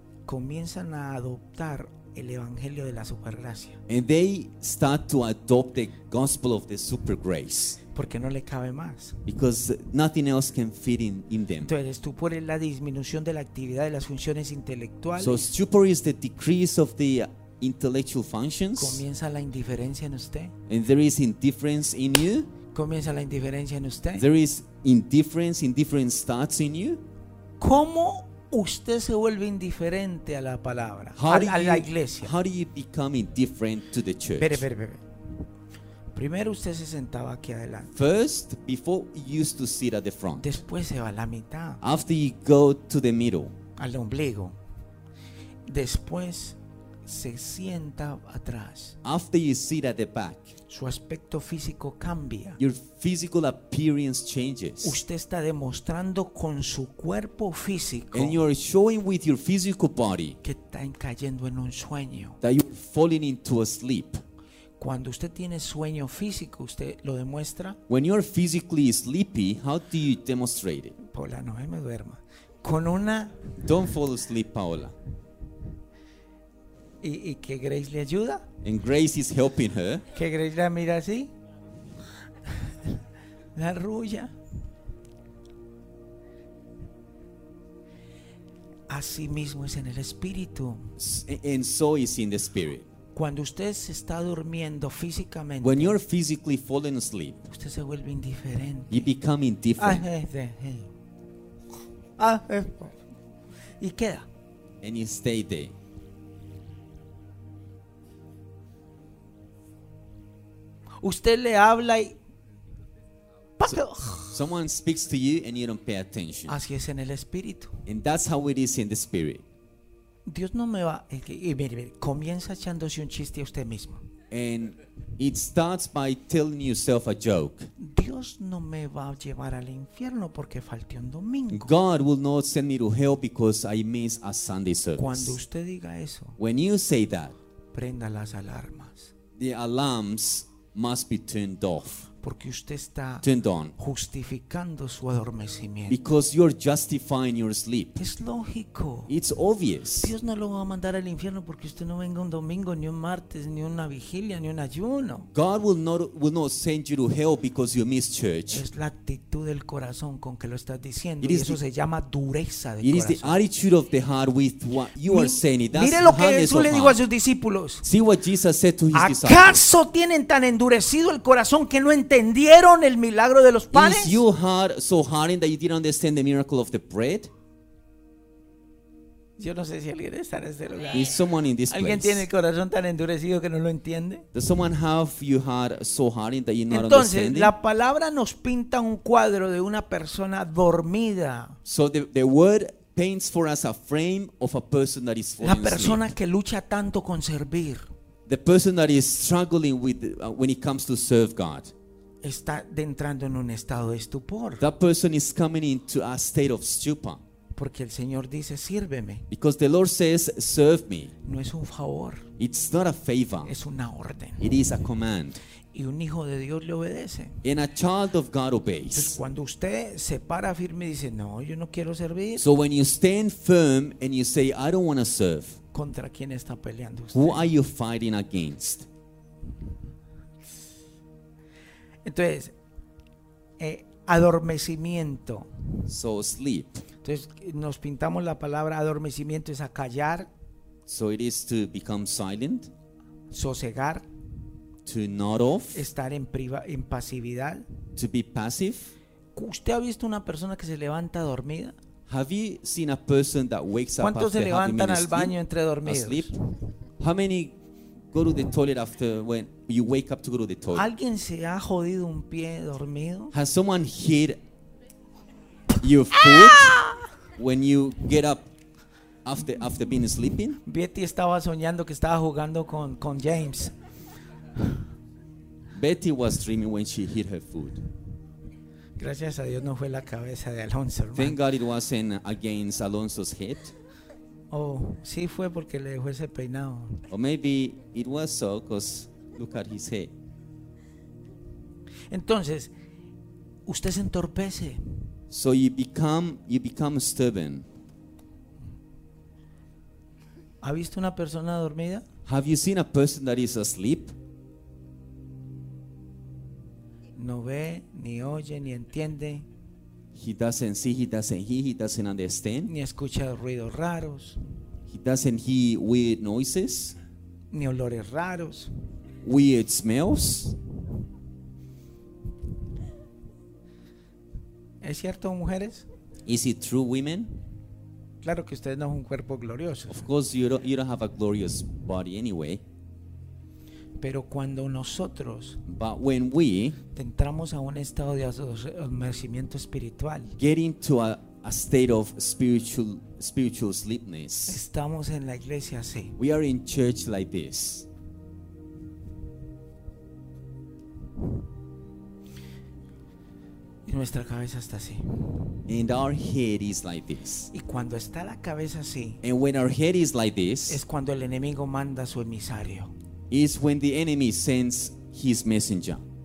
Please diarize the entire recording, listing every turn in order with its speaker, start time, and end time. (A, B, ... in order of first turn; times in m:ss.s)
0:00.3-0:03.8 A
0:03.9-0:07.8 B
0:07.9-0:09.2 A
0:09.3-0:11.7 B
0:11.6-0:15.5 A
0:15.2-0:19.0 B
0:18.8-0:20.5 A
0:20.7-0:22.5 B
0:22.7-0:24.2 A
0:24.2-0:27.0 B
0:27.6-0:32.3 A
0:31.1-0:34.6 B
0:34.4-0:35.0 A
0:36.1-0:37.9 A
0:37.9-0:40.5 B
0:40.4-0:41.8 A
0:41.8-0:43.5 B
0:43.8-0:44.6 A
0:45.6-0:49.0 A
0:49.0-0:50.6 B
0:50.7-0:52.6 A
0:52.6-0:55.0 B
0:54.8-0:58.4 A
0:58.1-1:00.4 B
1:00.4-1:02.4 A
1:02.4-1:04.2 B
1:04.8-1:07.8 A
1:07.9-1:11.0 B
1:11.0-1:13.6 A
1:13.6-1:15.0 B
1:17.0-1:18.5 A
1:18.6-1:20.0 B
1:20.1-1:21.3 A
1:22.4-1:23.0 A
1:23.5-1:24.3 A
1:28.9-1:30.9 A
1:31.0-1:32.9 B
1:33.1-1:36.0 A
1:35.6-1:37.5 B
1:37.5-1:39.1 A
1:38.9-1:40.0 B
1:39.8-1:40.9 A
1:42.2-1:43.0 A
1:43.8-1:44.3 A
1:44.8-1:45.7 B
1:51.0-1:52.2 A
1:53.6-1:54.4 A
1:54.3-1:56.6 B
1:56.5-1:57.8 A
1:57.9-1:59.4 B
2:00.2-2:04.0 A
2:04.3-2:07.7 B
2:07.8-2:11.7 A
2:11.5-2:15.4 B
2:15.0-2:16.4 A
2:16.4-2:17.4 B
2:17.7-2:19.1 A
2:19.4-2:22.1 B
2:22.2-2:26.0 A
2:23.2-2:23.7 B
2:25.9-2:28.0 B
2:28.0-2:29.1 A
2:29.1-2:30.1 B
2:30.0-2:35.3 A
2:35.3-2:38.6 B
2:38.5-2:43.4 A
2:41.2-2:41.6 B
2:42.8-2:47.0 B
2:45.0-2:47.8 A
2:47.8-2:49.6 B
2:48.9-2:54.2 A
2:53.7-2:57.3 B
2:59.4-3:04.2 A
3:00.9-3:02.2 B
3:04.3-3:07.5 B
3:06.7-3:11.6 A
3:11.6-3:16.1 B
3:15.4-3:17.9 A
3:18.3-3:21.7 B
3:22.2-3:24.6 A
3:24.6-3:27.2 B
3:27.5-3:29.3 A
3:29.3-3:31.1 B
3:31.2-3:32.3 A
3:32.4-3:33.5 B
3:33.4-3:34.6 A
3:34.4-3:35.4 B
3:35.7-3:37.4 A
3:37.4-3:39.2 B
3:38.9-3:42.4 A
3:42.4-3:45.6 B
3:45.7-3:47.5 A
3:47.1-3:48.9 B
3:52.0-3:52.5 A
3:53.6-3:55.6 A
3:55.9-3:56.8 B
3:57.0-4:00.3 A
4:00.8-4:02.7 B
4:03.3-4:04.0 A
4:04.8-4:05.9 B
4:05.7-4:07.6 A
4:08.0-4:08.9 B
4:09.3-4:11.7 A
4:12.1-4:16.3 B
4:14.0-4:16.3 A
4:17.0-4:17.6 B
4:18.1-4:20.9 B
4:20.7-4:23.3 A
4:23.3-4:24.4 B
4:25.8-4:26.8 B
4:26.4-4:27.0 A
4:27.4-4:28.5 B
4:29.2-4:30.6 B
4:30.6-4:33.7 A
4:35.7-4:37.8 B
4:39.0-4:41.4 A
4:41.1-4:43.7 B
4:44.5-4:47.0 A
4:47.1-4:50.1 B
4:52.1-4:52.7 A
4:53.7-4:54.8 A
4:55.3-4:57.7 B
5:00.6-5:02.0 A
5:02.2-5:04.2 B
5:07.2-5:09.4 A
5:10.1-5:12.7 B
5:12.6-5:14.4 A
5:14.9-5:17.0 B
5:17.5-5:18.7 A
5:19.2-5:20.6 B
5:24.8-5:25.8 A
5:26.2-5:27.4 B
5:28.2-5:30.0 A
5:29.9-5:32.6 B
5:34.0-5:35.6 A
5:35.6-5:36.8 B
5:36.9-5:40.4 A
5:40.4-5:44.6 B
5:44.4-5:46.2 A
5:46.2-5:47.9 B
5:53.8-5:55.6 A
5:55.7-5:57.5 B
5:57.5-5:59.2 A
5:59.2-6:00.8 B
6:00.7-6:02.9 A
6:03.3-6:06.0 B